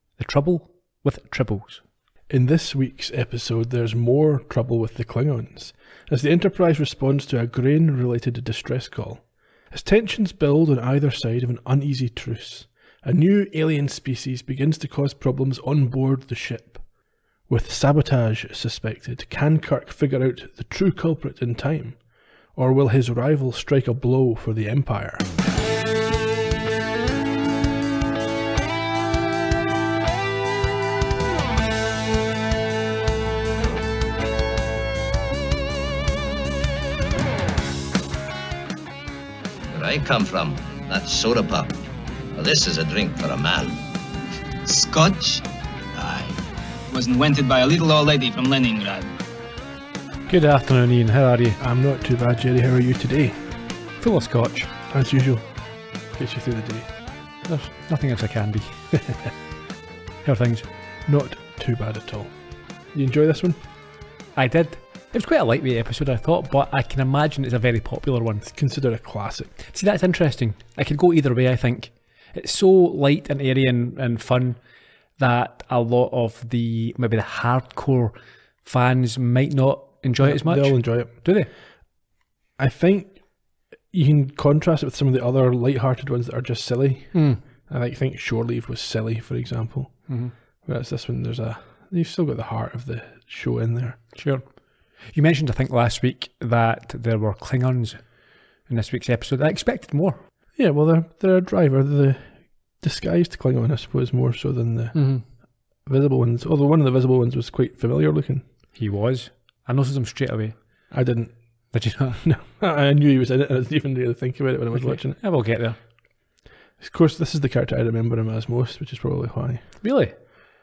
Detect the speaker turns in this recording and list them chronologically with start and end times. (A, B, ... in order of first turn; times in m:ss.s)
0:00.2-0:01.8 A
0:02.3-0:25.3 B
0:39.7-0:43.8 C
0:44.7-0:45.4 D
0:46.0-0:46.4 C
0:46.9-0:49.1 D
0:50.3-0:51.6 A
0:51.6-0:53.5 B
0:54.0-0:54.7 A
0:54.9-0:56.9 B
0:57.4-0:59.0 A
1:00.2-1:00.7 A
1:01.1-1:03.6 B
1:04.4-1:08.5 A
1:08.4-1:09.6 B
1:09.7-1:14.6 A
1:15.2-1:21.5 A
1:20.2-1:21.2 B
1:22.6-1:34.2 B
1:27.1-1:27.4 A
1:30.1-1:30.3 A
1:34.2-1:40.2 A
1:40.6-1:48.4 B
1:44.9-1:45.2 A
1:48.8-1:50.9 A
1:50.9-1:55.2 B
1:51.7-1:52.2 A
1:54.7-1:55.8 A
1:56.8-1:59.7 B
1:59.8-2:00.2 A